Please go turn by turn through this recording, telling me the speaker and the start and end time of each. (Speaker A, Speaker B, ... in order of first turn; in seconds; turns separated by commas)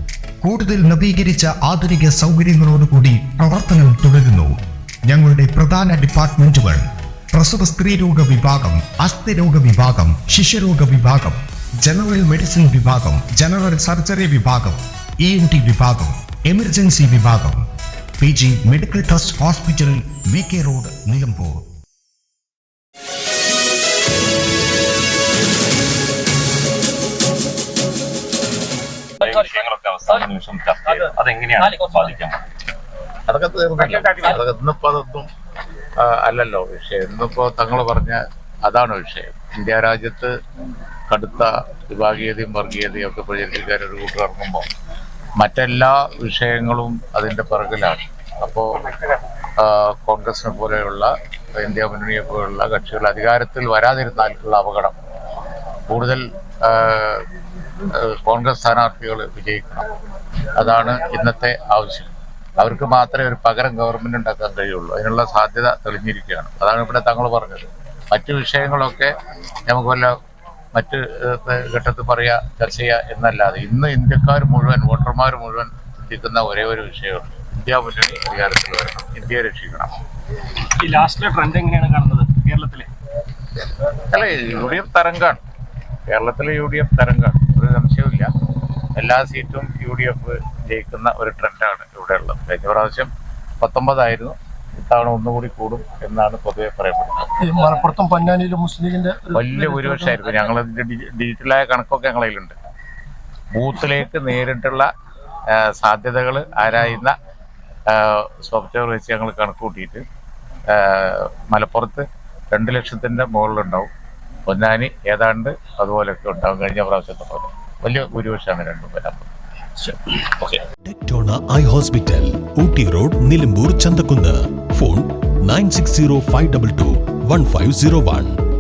Speaker A: 0.4-4.5, Speaker A: 5.1-17.6, Speaker A: 18.2-21.6, Speaker B: 29.2-32.4, Speaker C: 33.3-35.3, Speaker C: 36.0-40.3, Speaker C: 41.1-44.6, Speaker C: 45.4-48.8, Speaker C: 49.6-55.0, Speaker C: 55.9-57.2, Speaker C: 57.9-59.9, Speaker C: 60.5-69.1, Speaker C: 69.7-70.1, Speaker C: 70.8-79.9, Speaker D: 80.8-82.9, Speaker C: 84.1-85.4, Speaker C: 86.1-88.3, Speaker C: 89.0-97.3, Speaker E: 97.4-100.3, Speaker C: 99.3-102.6, Speaker C: 103.5-104.9, Speaker C: 105.6-107.2, Speaker C: 107.9-110.0, Speaker C: 110.7-113.9, Speaker C: 114.5-119.3, Speaker C: 119.8-120.6, Speaker F: 120.8-128.3